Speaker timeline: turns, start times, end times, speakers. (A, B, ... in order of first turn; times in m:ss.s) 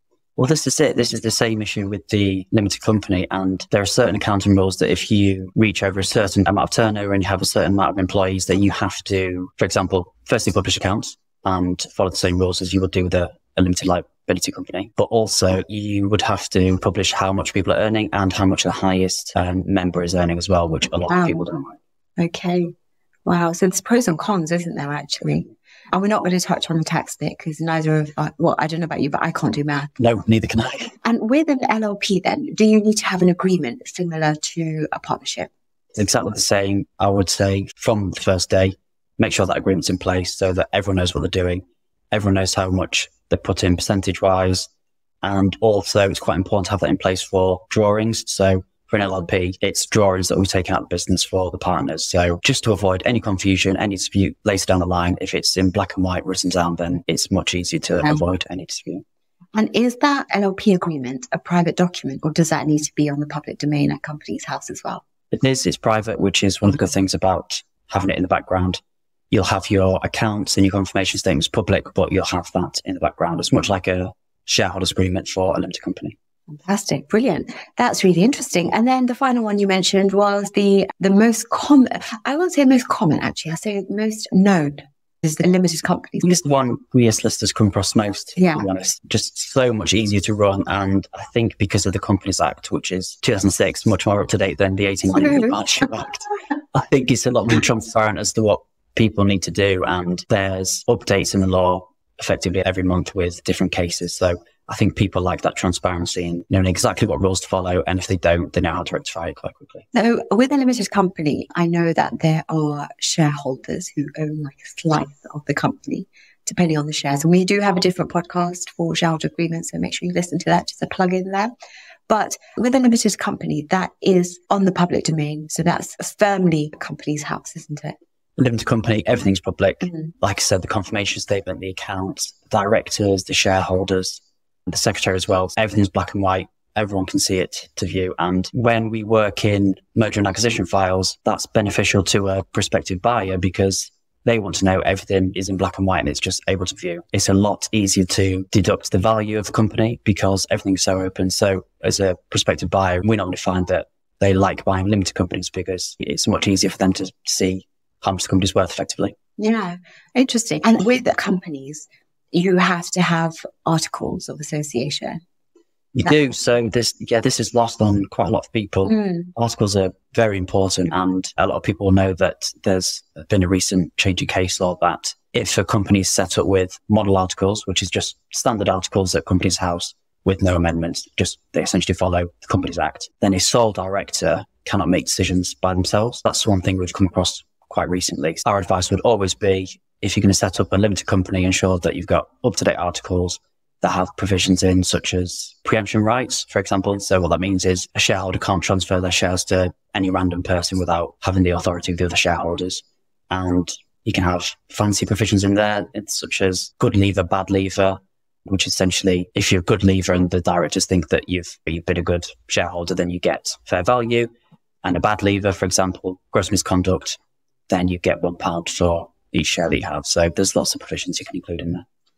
0:00.4-0:21.8 A
0:21.1-0:21.5 B
0:22.2-0:22.7 B
0:23.2-0:29.9 B
0:30.0-0:30.9 A
0:31.0-0:35.5 B
0:36.0-0:44.7 A
0:45.2-0:59.0 A
0:59.5-1:05.0 B
1:05.3-1:08.8 A
1:09.3-1:16.1 A
1:16.5-1:26.4 B
1:26.2-1:49.8 A
1:28.4-1:28.6 B
1:35.1-1:35.6 B
1:49.9-2:01.5 B
2:02.1-2:08.0 B
2:08.4-2:39.1 A
2:39.4-2:45.2 B
2:46.0-3:34.3 A
2:48.9-2:49.3 B
3:34.8-3:37.2 A
3:37.7-3:41.8 A